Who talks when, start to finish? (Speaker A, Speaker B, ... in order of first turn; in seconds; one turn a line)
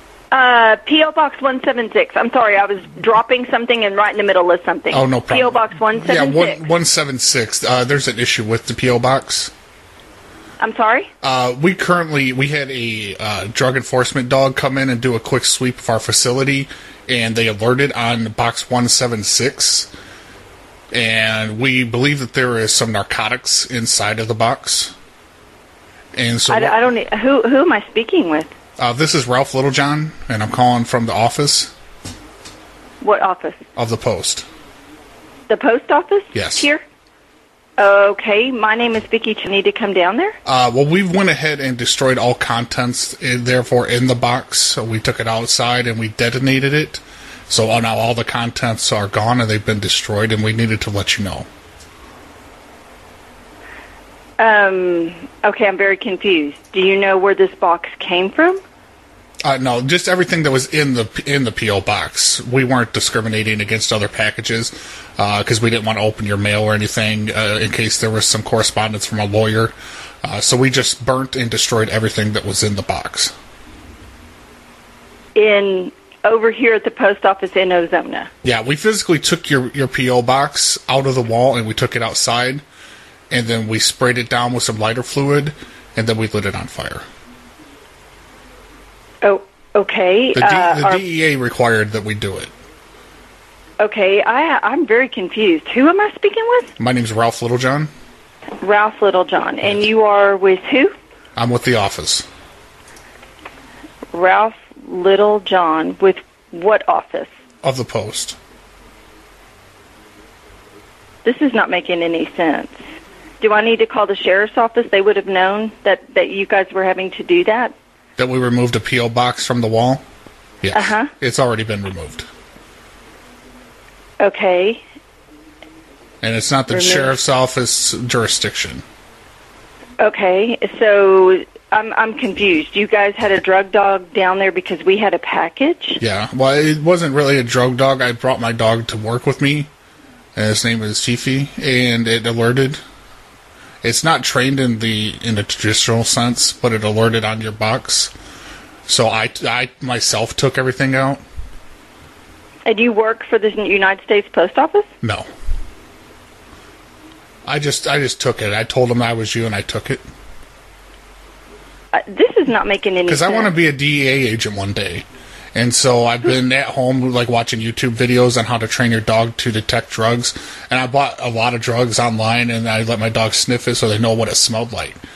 Speaker A: 0.3-6.7
Speaker B: 4.9-9.5
Speaker A: 10.6-11.1
Speaker B: 11.2-19.9
Speaker B: 20.9-24.9
Speaker B: 26.1-26.8
Speaker A: 26.5-28.5
Speaker B: 28.8-31.7
Speaker A: 33.0-33.6
Speaker B: 33.8-34.5
Speaker A: 35.5-36.8
Speaker B: 36.3-36.7
Speaker A: 37.8-40.4
Speaker B: 40.5-51.5
Speaker A: 54.4-58.6
Speaker B: 59.4-73.3
Speaker A: 75.3-78.3
Speaker B: 78.4-82.6
Speaker B: 83.3-87.0
Speaker A: 89.2-91.0
Speaker B: 90.3-92.5
Speaker A: 93.8-96.7
Speaker B: 96.8-97.9
Speaker A: 98.6-100.9
Speaker B: 101.4-102.3
Speaker A: 104.1-107.3
Speaker B: 107.6-108.4
Speaker A: 111.2-112.8
Speaker A: 113.4-117.7
Speaker B: 118.2-120.0
Speaker B: 120.6-122.3
Speaker A: 120.7-121.1
Speaker A: 124.2-124.8
Speaker B: 126.2-128.8
Speaker A: 126.7-127.1
Speaker A: 130.0-136.0
Speaker B: 136.0-139.7
Speaker B: 140.3-142.8
Speaker B: 143.8-148.1
Speaker B: 148.9-151.2
Speaker A: 152.7-154.9
Speaker B: 155.0-155.3
Speaker B: 157.5-160.0
Speaker A: 161.9-163.6
Speaker B: 163.1-175.0